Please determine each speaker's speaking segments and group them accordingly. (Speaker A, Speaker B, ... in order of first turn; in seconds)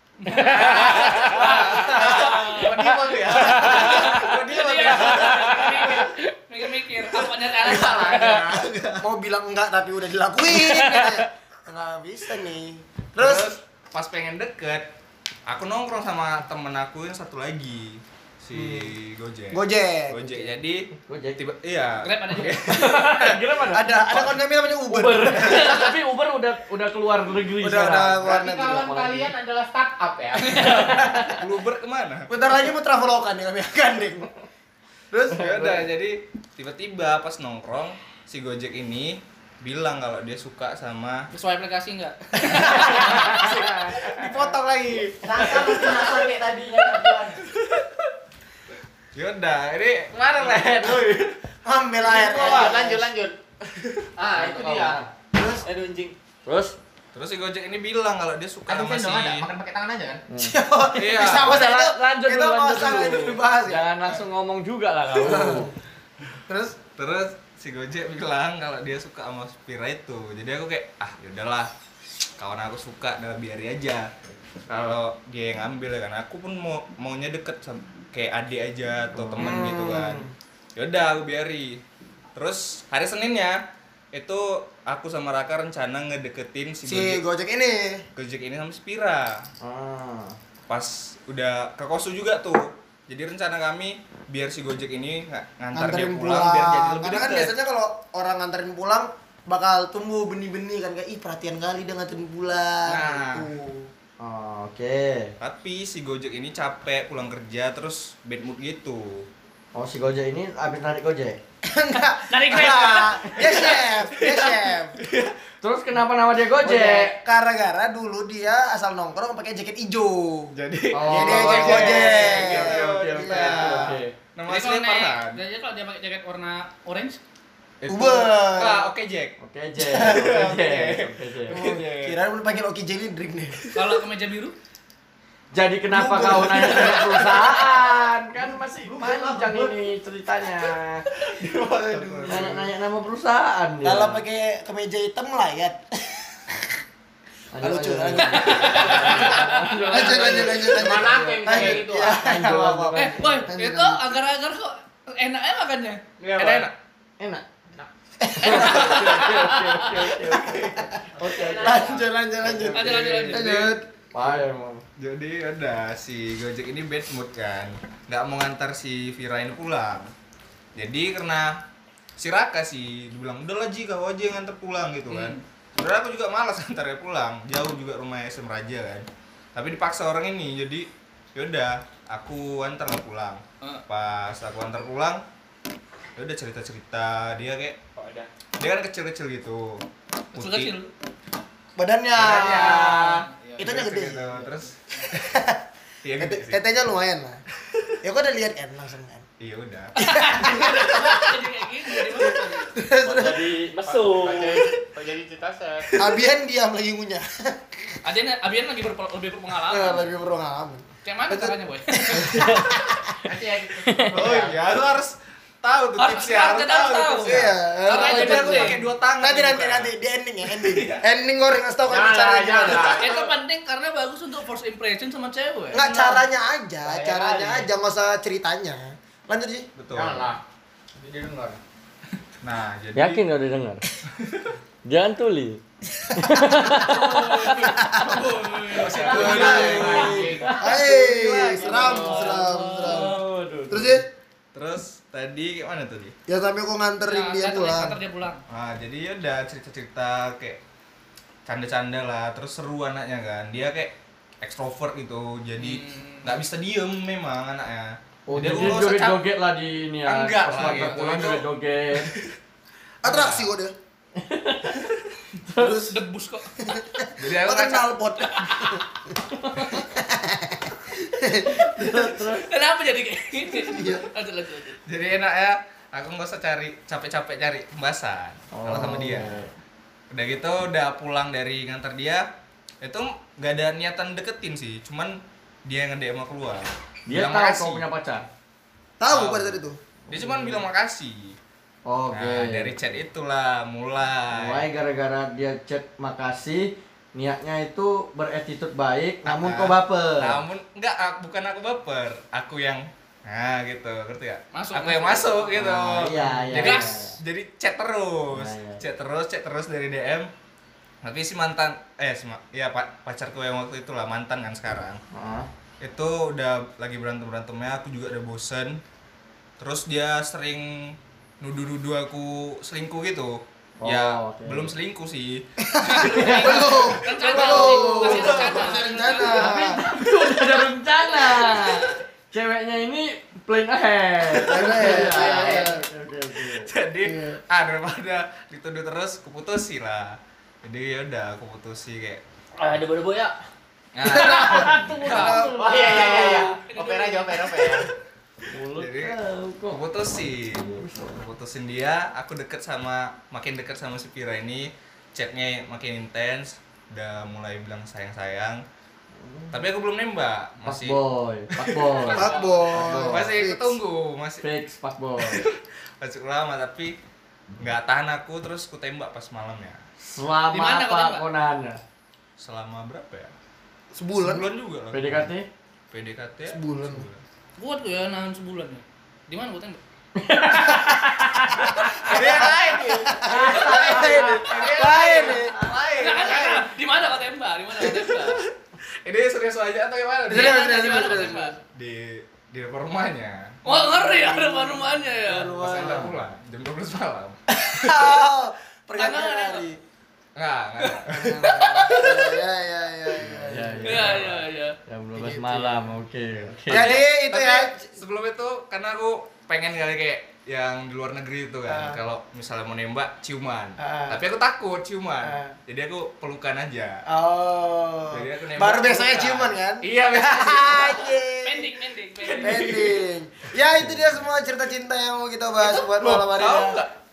Speaker A: 0.2-2.9, 3.5-8.5, 22.0-22.9, 25.5-25.9, 30.4-31.2, 41.3-43.5, 112.3-113.6, 124.5-127.2, 133.7-134.6, 148.4-150.1, 152.9-156.0, 158.4-159.9, 162.7-163.6, 175.1-175.4, 190.4-190.9, 200.0-202.8, 208.0-210.1, 211.1-212.3, 216.0-218.8, 222.8-226.2, 236.8-240.1, 247.1-248.4, 255.6-256.4, 265.6-266.4, 268.3-268.8, 272.4-274.8, 304.5-305.5, 306.5-307.0, 325.8-329.7, 344.1-347.4, 362.0-362.7, 370.5-371.3, 377.6-379.8, 383.5-384.0, 385.9-388.4, 390.3-391.6, 393.6-395.6, 399.0-399.7, 401.6-401.9, 403.9-404.8, 421.4-422.8
Speaker B: 0.3-2.3, 3.3-4.3, 4.9-6.1, 10.6-11.2, 20.2-21.4, 22.4-24.4, 24.9-29.3, 50.4-51.2, 54.4-55.1, 56.5-56.8, 60.3-60.6, 61.2-65.7, 89.6-90.4, 104.2-105.3, 109.8-111.4, 115.6-117.2, 121.0-124.1, 129.4-131.6, 135.5-141.1, 142.3-144.2, 147.5-153.4, 157.2-157.4, 158.4-161.9, 162.4-162.8, 164.1-164.8, 203.0-204.6, 213.9-214.1, 232.9-233.8, 234.8-237.7, 239.1-244.0, 258.3-262.1, 264.2-264.9, 265.4-265.8, 269.4-269.8, 271.6-272.4, 278.5-279.5, 287.1-288.3, 290.1-290.6, 291.9-292.8, 294.3-300.4, 305.6-307.2, 308.3-308.8, 315.1-315.5, 323.8-324.7, 327.2-328.3, 329.2-336.7, 342.6-343.4, 344.1-346.5, 348.5-351.2, 359.2-359.6, 360.6-363.3, 364.4-365.4, 370.1-371.8, 374.9-375.5, 380.2-382.2, 383.2-383.9, 403.2-406.9
Speaker C: 0.5-6.0, 13.2-14.8, 15.5-23.4, 31.3-32.3, 35.3-41.3, 44.1-45.0, 49.1-51.3, 57.1-59.5, 60.9-61.7, 67.0-71.7, 72.4-74.1, 74.7-81.8, 82.3-83.6, 84.1-87.2, 88.2-89.5, 90.7-97.5, 102.9-103.5, 105.4-109.3, 113.5-115.3, 120.5-125.4, 127.8-129.4, 129.9-132.2, 136.4-136.8, 141.4-142.7, 156.2-156.7, 162.7-164.4, 165.0-170.1, 170.8-171.6, 172.2-185.2, 186.2-187.8, 188.6-189.8, 190.3-190.8, 192.2-194.8, 196.0-196.6, 199.4-199.9, 214.1-219.9, 220.6-221.1, 229.8-230.3, 231.0-231.6, 232.4-233.2, 234.2-234.6, 238.7-240.5, 241.2-241.6, 244.5-246.1, 248.5-250.6, 251.4-259.2, 260.1-261.5, 263.1-263.5, 267.2-267.9, 274.9-279.4, 280.1-282.3, 282.8-287.9, 289.1-291.4, 292.1-294.6, 299.2-310.3, 311.0-315.0, 315.8-318.8, 319.6-328.8, 329.9-330.6, 331.3-331.7, 334.7-335.6, 336.5-342.2, 343.9-345.5, 347.6-347.9, 348.7-349.2, 349.7-358.6, 359.5-361.0, 361.5-364.4, 365.2-366.9, 367.6-369.8, 372.4-373.3, 374.2-375.3, 375.9-377.2, 382.0-386.6, 388.0-388.4, 389.1-393.6, 395.4-398.1, 400.4-402.3, 403.3-404.3, 406.7-417.1, 418.1-420.4, 422.2-423.1, 425.6-426.9
Speaker D: 7.5-13.6, 18.5-18.9, 19.5-20.3, 23.7-25.9, 27.6-28.9, 32.3-34.3, 35.1-35.7, 42.4-45.7, 51.6-53.0, 55.3-55.6, 60.4-63.9, 65.2-65.7, 66.5-66.8, 79.4-80.3, 86.9-88.0, 95.7-103.9, 111.6-115.0, 116.6-124.0, 127.9-128.9, 129.9-130.3, 131.5-133.9, 135.9-138.0, 141.4-142.6, 143.8-146.8, 147.6-154.2, 158.2-159.3, 160.2-163.8, 191.8-194.5, 195.1-195.6, 196.2-197.4, 198.0-199.3, 200.0-203.5, 205.9-207.9, 209.7-213.1, 217.2-223.1, 225.7-229.7, 236.1-238.2, 239.1-243.2, 243.7-244.1, 246.3-248.0, 263.0-263.7, 265.6-266.0, 266.6-268.9, 269.8-272.2, 273.6-274.0, 289.0-289.8, 325.6-329.8, 334.3-335.8, 337.1-337.4, 344.1-344.6, 345.1-345.5, 362.1-363.8, 373.9-374.5, 376.5-377.1, 382.0-386.7, 390.3-391.6, 393.7-396.2, 397.5-399.8, 401.1-404.2, 405.1-405.9, 406.7-407.9, 411.7-412.0, 413.8-414.2, 415.2-415.5, 417.1-421.8, 422.4-426.9
Speaker E: 28.2-31.1, 52.1-53.4, 54.2-55.0, 55.6-56.2, 58.7-60.2, 121.4-121.9, 150.0-152.2, 161.2-162.0, 187.9-188.3, 192.2-193.8, 203.9-205.9, 213.2-214.8, 221.9-223.3, 226.8-227.7, 229.9-230.4, 239.0-240.7, 345.6-347.9, 420.3-420.9
Speaker F: 45.2-47.4, 138.4-139.8